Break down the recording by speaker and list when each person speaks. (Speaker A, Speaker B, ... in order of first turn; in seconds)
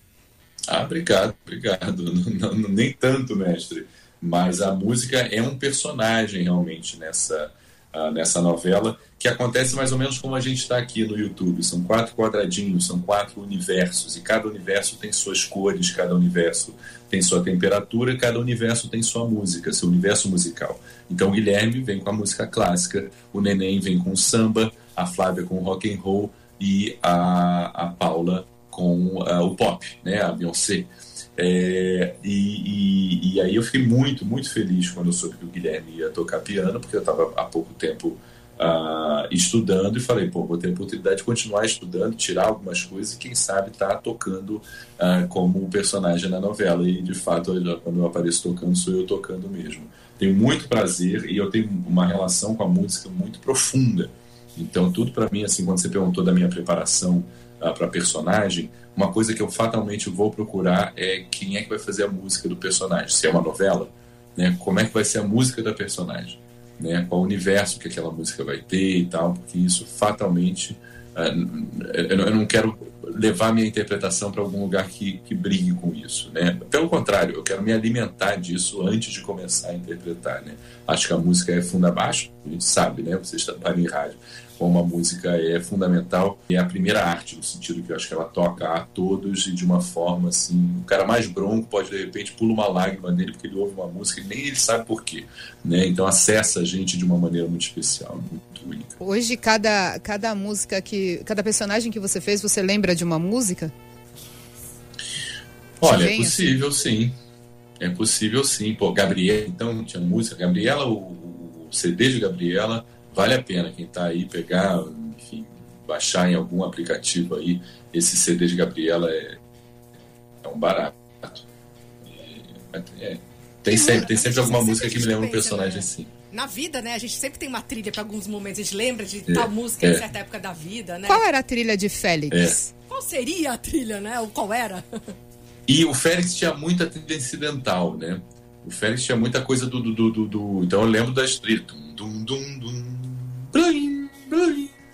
Speaker A: 0.7-99.0, 105.8-107.2, 107.8-119.4, 120.4-121.5, 122.0-126.1, 129.3-130.0, 132.3-132.6, 135.7-144.7
Speaker B: 99.0-103.7, 105.8-106.5, 123.7-124.0, 131.1-132.7
Speaker C: 123.7-131.2, 132.9-135.1